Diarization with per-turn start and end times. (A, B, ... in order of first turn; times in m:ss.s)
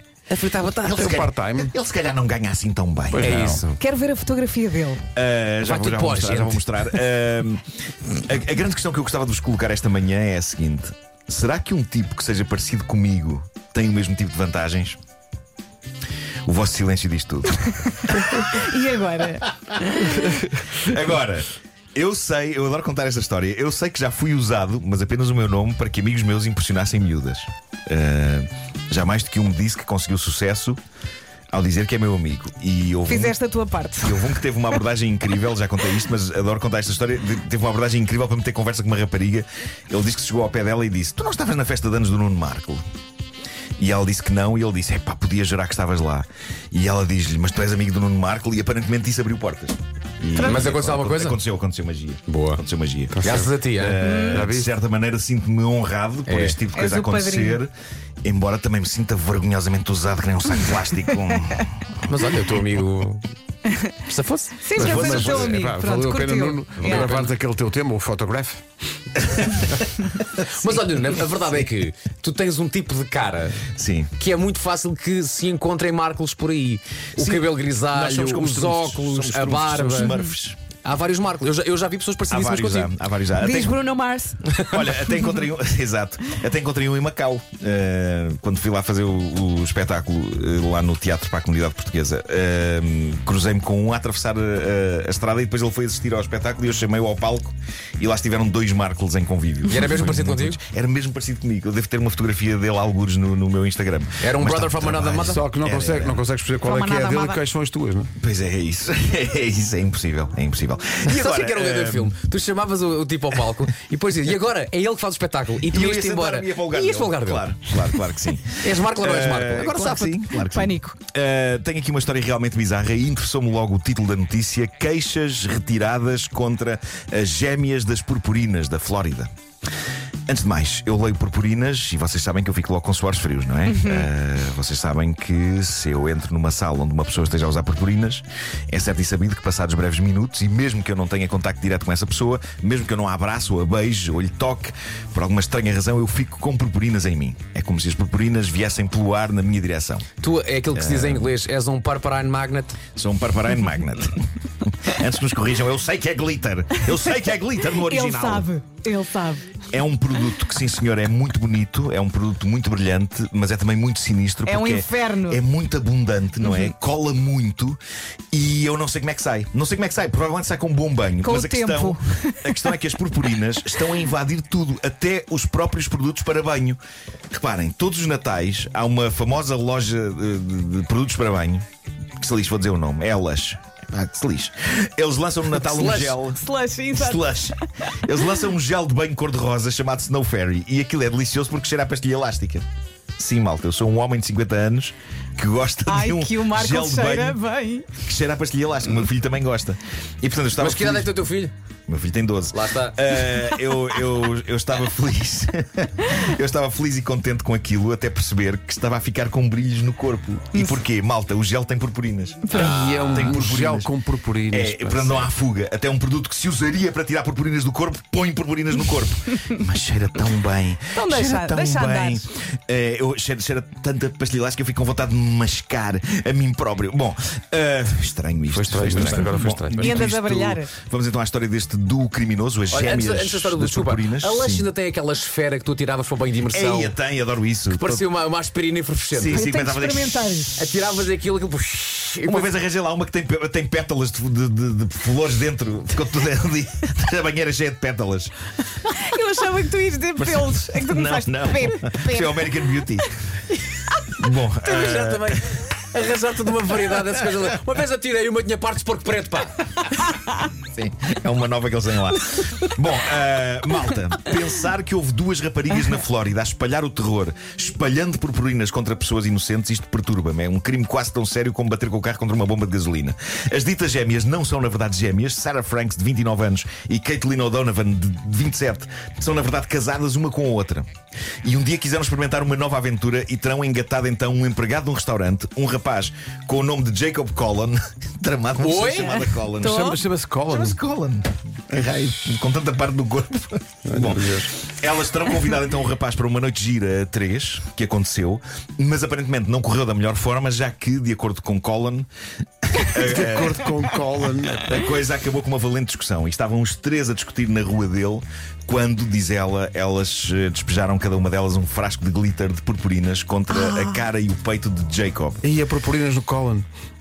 0:00.3-0:01.2 A
0:00.8-0:03.6 B
0:00.9-0:01.7 C
0:03.1-0:03.7 C
0:03.2-0:03.8 A
0:03.8-0:05.0 D
0:05.1-0:07.6 B
0:05.6-0:06.6 A
0:08.2-0:15.0 B
0:16.4-0:18.4 B
0:18.3-0:20.3 D
0:20.7-0:30.8 B
0:31.5-0:33.4 B
0:33.1-0:34.2 D
0:34.0-0:42.8 B
0:43.8-0:57.7 B
0:50.4-0:50.6 D
0:50.4-0:51.4 A
0:52.3-0:52.6 A
0:53.1-0:53.5 C
0:53.2-0:54.0 A
0:54.0-0:54.5 D
0:54.2-0:54.7 C
0:56.3-0:56.6 A
0:56.7-0:57.6 D
0:58.2-1:01.8 B
1:02.0-1:03.2 A
1:04.0-1:05.4 A
1:04.6-1:07.3 D
1:04.7-1:08.6 C
1:04.8-1:05.6 B
1:06.8-1:07.3 A
1:10.4-1:13.6 A
1:13.7-1:14.1 B
1:14.2-1:20.2 A
1:17.2-1:20.6 B
1:20.8-1:22.9 A
1:22.3-1:23.8 B
1:23.4-1:24.6 D
1:24.6-1:46.2 B
1:39.7-1:40.6 A
1:44.2-1:45.4 A
1:45.2-1:48.1 C
1:46.6-1:47.4 D
1:48.2-1:52.1 B
1:51.0-1:57.5 A
1:55.7-2:09.3 B
1:58.6-1:59.9 A
1:59.8-2:01.0 D
2:10.3-2:30.1 B
2:13.8-2:14.0 D
2:30.2-2:32.8 A
2:30.7-2:31.3 B
2:33.0-2:38.5 B
2:37.7-2:39.5 D
2:39.7-2:47.8 B
2:44.4-2:45.4 D
2:48.3-2:56.8 B
2:51.2-2:52.6 D
2:57.3-3:01.6 B
3:02.2-3:06.4 B
3:05.5-3:06.2 A
3:06.3-3:07.5 D
3:06.9-3:12.6 B
3:13.2-3:17.4 B
3:15.9-3:18.0 D
3:17.9-3:21.2 B
3:20.6-3:21.5 A
3:21.9-3:33.9 B
3:22.5-3:23.2 A
3:32.5-3:35.3 C
3:32.5-3:33.4 A
3:34.5-3:54.7 B
3:40.9-3:42.2 D
3:48.5-3:50.1 C
3:48.9-3:49.6 A
3:49.8-3:50.7 D
3:52.7-3:56.9 A
3:56.5-3:58.1 B
3:57.7-3:59.4 A
3:59.1-4:00.3 B
3:59.3-4:00.6 D
4:00.6-4:02.5 A
4:02.2-4:08.3 B
4:08.9-4:12.5 D
4:10.2-4:13.1 B
4:14.2-4:15.6 B
4:14.6-4:19.9 A
4:20.6-4:40.9 B
4:41.4-5:02.1 B
4:48.6-4:49.2 A
4:49.6-4:50.8 C
4:49.7-4:49.9 D
4:53.8-4:54.5 C
5:02.6-5:03.8 B
5:02.9-5:04.8 C
5:04.5-5:15.4 B
5:15.4-5:16.6 C